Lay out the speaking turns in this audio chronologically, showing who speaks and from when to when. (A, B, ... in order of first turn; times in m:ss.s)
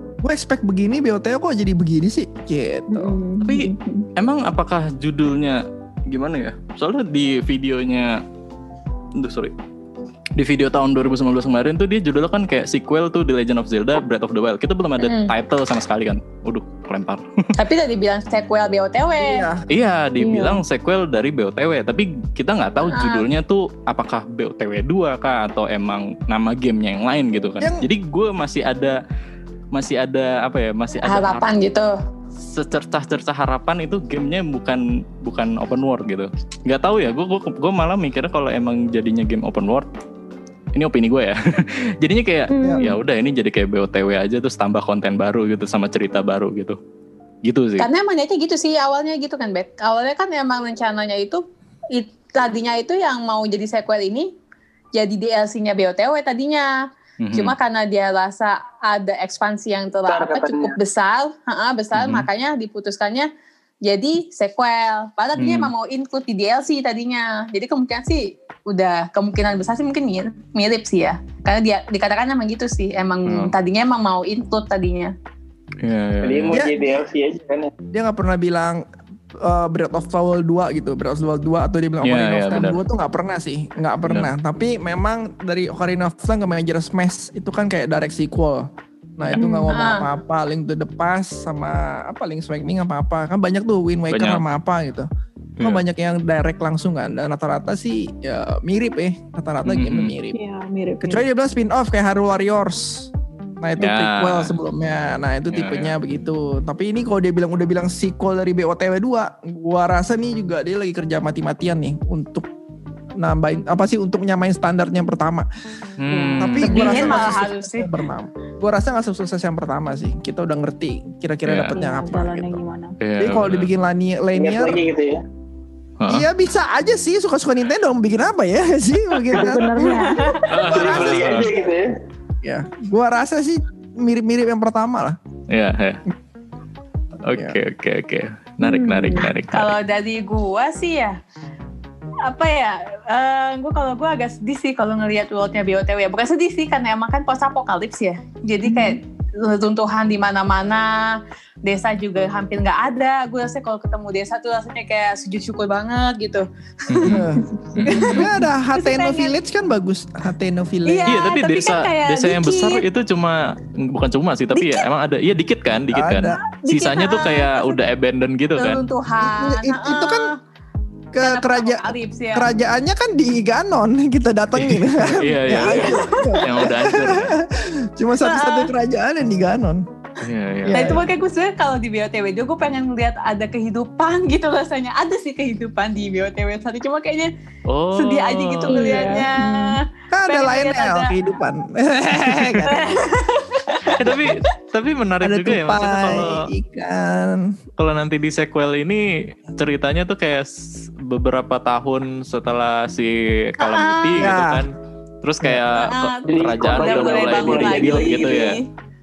0:00.2-0:03.2 A
0:02.9-0:04.1 B
0:03.4-0:08.2 C
0:09.2-0:09.5 C
0:10.4-0:17.5 C
0:15.0-0:15.3 D
0:17.6-0:19.5 D
0:19.2-0:19.6 A
0:19.7-0:29.0 C
0:20.2-0:20.6 B
0:22.8-0:23.3 D
0:27.6-0:27.9 A
0:29.7-0:31.5 C
0:31.0-0:31.9 D
0:32.4-0:39.9 C
0:40.8-0:46.8 C
0:42.5-0:43.0 B
0:42.6-0:42.9 A
0:47.4-0:47.9 C
0:47.8-0:54.3 D
0:55.0-1:03.3 D
0:57.2-0:57.6 C
1:00.1-1:00.8 E
1:01.9-1:02.3 C
1:03.8-1:15.2 D
1:05.4-1:05.7 C
1:13.3-1:13.6 C
1:15.8-1:16.7 C
1:16.2-1:17.7 E
1:16.5-1:16.8 A
1:17.9-1:18.8 A
1:19.4-1:35.1 A
1:22.0-1:22.8 C
1:29.4-1:29.8 B
1:29.7-1:30.1 D
1:34.1-1:34.4 C
1:35.6-1:40.4 A
1:39.6-1:40.2 C
1:40.3-1:41.2 B
1:41.0-1:52.5 A
1:43.8-1:44.6 C
1:45.5-1:46.0 C
1:53.2-1:55.5 A
1:56.0-1:57.4 C
1:56.1-1:57.1 B
1:56.4-2:02.6 A
1:56.6-1:57.9 D
2:01.4-2:01.9 C
2:01.8-2:03.0 B
2:03.0-2:03.7 C
2:03.2-2:04.8 A
2:04.4-2:05.2 E
2:06.0-2:06.3 C
2:06.1-2:11.5 A
2:09.3-2:10.4 B
2:10.0-2:10.7 D
2:10.5-2:11.6 C
2:10.5-2:11.9 E
2:12.4-2:15.2 A
2:15.5-2:16.0 C
2:17.2-2:19.8 C
2:18.6-2:19.3 B
2:19.5-2:21.2 D
2:22.2-2:37.2 D
2:28.6-2:29.0 B
2:36.9-2:38.3 C
2:37.0-2:41.2 A
2:37.8-2:38.3 B
2:37.9-2:39.3 D
2:40.9-2:42.8 D
2:41.1-2:48.9 C
2:44.5-2:44.9 D
2:45.9-2:46.4 A
2:46.3-2:47.8 D
2:48.6-2:50.4 D
2:49.2-2:50.3 A
2:51.1-2:59.8 A
2:51.2-2:52.5 D
2:54.6-2:57.4 C
2:55.6-2:56.5 D
2:58.2-2:58.7 D
3:00.2-3:01.0 C
3:00.6-3:01.1 A
3:00.7-3:07.3 D
3:07.7-3:09.2 C
3:07.9-3:11.2 D
3:08.7-3:09.8 B
3:10.1-3:12.9 A
3:12.7-3:14.4 D
3:14.0-3:16.5 C
3:15.2-3:17.6 A
3:17.8-3:28.6 C
3:23.6-3:24.3 D
3:24.2-3:24.6 A
3:25.6-3:28.7 D
3:26.3-3:28.6 E